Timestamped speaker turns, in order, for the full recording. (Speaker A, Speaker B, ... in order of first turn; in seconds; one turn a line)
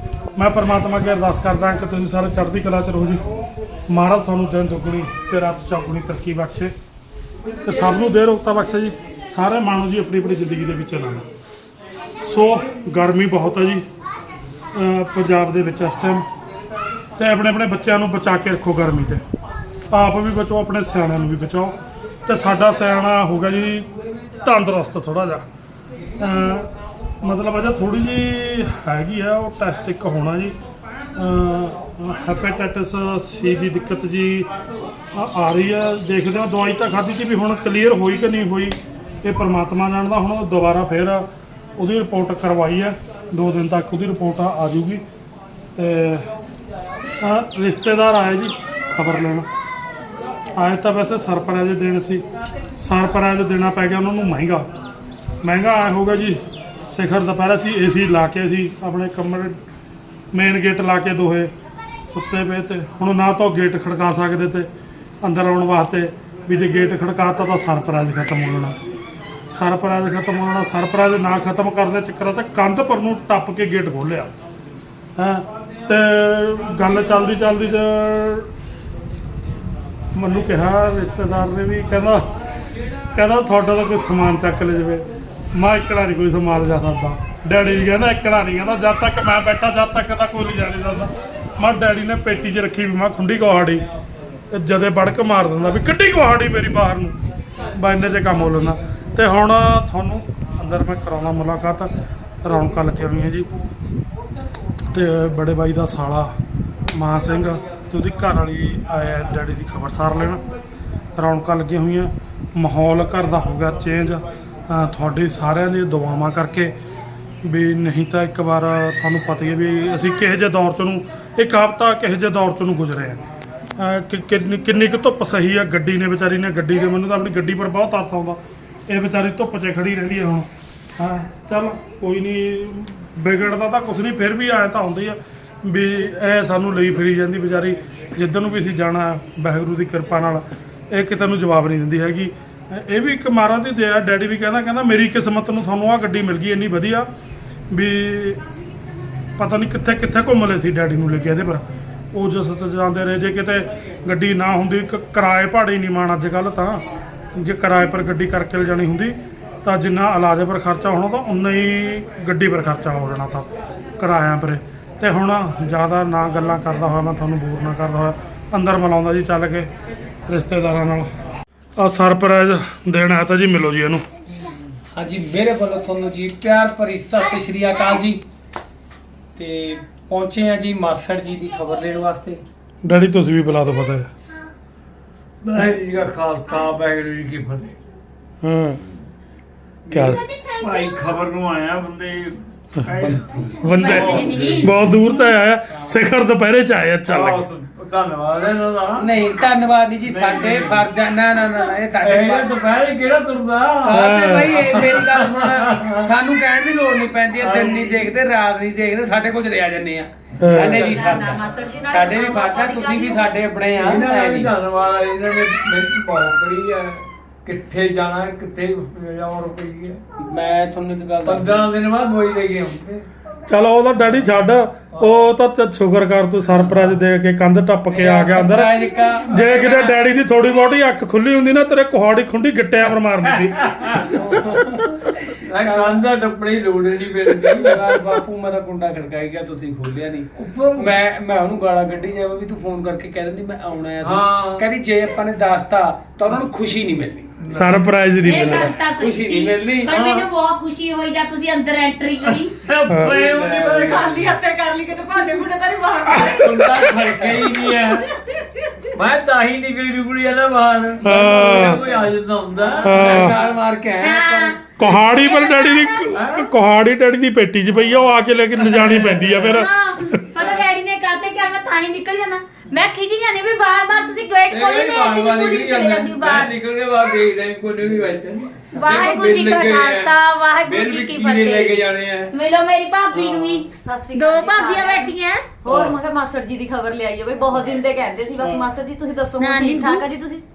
Speaker A: 0.3-3.2
Speaker A: 3.9-6.7
Speaker A: 7.6-11.3
Speaker A: 12.2-13.9
Speaker A: 14.7-16.3
Speaker A: 17.2-19.2
Speaker A: 19.9-23.9
Speaker A: 24.4-25.4
Speaker A: 26.2-26.7
Speaker A: 27.2-30.6
Speaker A: 31.1-34.5
Speaker A: 35.1-41.3
Speaker A: 41.8-45.0
Speaker A: 45.8-46.3
Speaker A: 47.2-49.5
Speaker A: 50.5-52.2
Speaker A: 52.8-54.7
Speaker A: 55.4-59.6
Speaker A: 60.3-61.5
Speaker A: 62.1-64.7
Speaker A: 65.2-68.8
Speaker A: 69.5-74.3
Speaker A: 75.2-78.5
Speaker A: 80.1-82.3
Speaker A: 83.1-93.9
Speaker A: 94.5-97.2
Speaker A: 97.7-103.5
Speaker A: 104.9-106.4
Speaker A: 106.9-110.4
Speaker A: 111.2-116.7
Speaker A: 117.4-123.2
Speaker A: 123.8-147.1
Speaker A: 147.7-148.4
Speaker A: 149.4-169.7
Speaker A: 170.3-171.1
Speaker A: 171.8-174.1
Speaker B: 174.9-178.2
Speaker B: 179.4-182.4
Speaker A: 182.8-184.1
Speaker C: 185.4-187.8
Speaker A: 188.4-188.8
Speaker C: 189.9-194.9
Speaker A: 189.9-190.2
Speaker D: 190.4-190.8
Speaker A: 192.8-197.5
Speaker D: 193.6-194.8
Speaker C: 197.1-199.1
Speaker B: 199.0-202.5
Speaker C: 200.0-200.9
Speaker C: 202.0-206.1
Speaker B: 203.8-214.6
Speaker A: 203.9-204.9
Speaker C: 207.4-208.1
Speaker A: 210.4-211.0
Speaker C: 210.6-211.2
Speaker E: 210.7-213.3
Speaker C: 213.7-220.0
Speaker B: 220.2-221.7
Speaker C: 221.2-223.0
Speaker A: 223.5-228.8
Speaker C: 224.9-225.2
Speaker C: 226.6-226.9
Speaker B: 227.9-229.9
Speaker A: 229.3-234.0
Speaker C: 233.4-234.2
Speaker B: 234.1-235.0
Speaker C: 235.3-237.9
Speaker B: 235.6-236.1
Speaker B: 237.4-247.3
Speaker C: 240.4-241.0
Speaker C: 244.0-244.7
Speaker C: 247.4-247.8
Speaker A: 247.5-248.7
Speaker D: 248.2-252.6
Speaker B: 248.3-249.9
Speaker C: 249.9-250.3
Speaker C: 252.6-254.3
Speaker A: 252.9-253.3
Speaker B: 253.2-254.3
Speaker E: 253.7-258.8
Speaker C: 256.1-258.1
Speaker B: 257.1-257.4
Speaker C: 258.9-263.3
Speaker A: 261.0-261.8
Speaker B: 261.5-261.9
Speaker B: 262.7-264.6
Speaker A: 262.8-263.4
Speaker D: 264.0-266.1
Speaker A: 264.8-270.3
Speaker C: 266.1-266.5
Speaker C: 268.6-269.6
Speaker D: 269.4-276.5
Speaker C: 274.5-282.3
Speaker D: 278.7-285.5
Speaker C: 283.1-283.6
Speaker E: 283.7-290.4
Speaker C: 285.6-286.0
Speaker C: 288.4-288.7
Speaker D: 289.4-290.1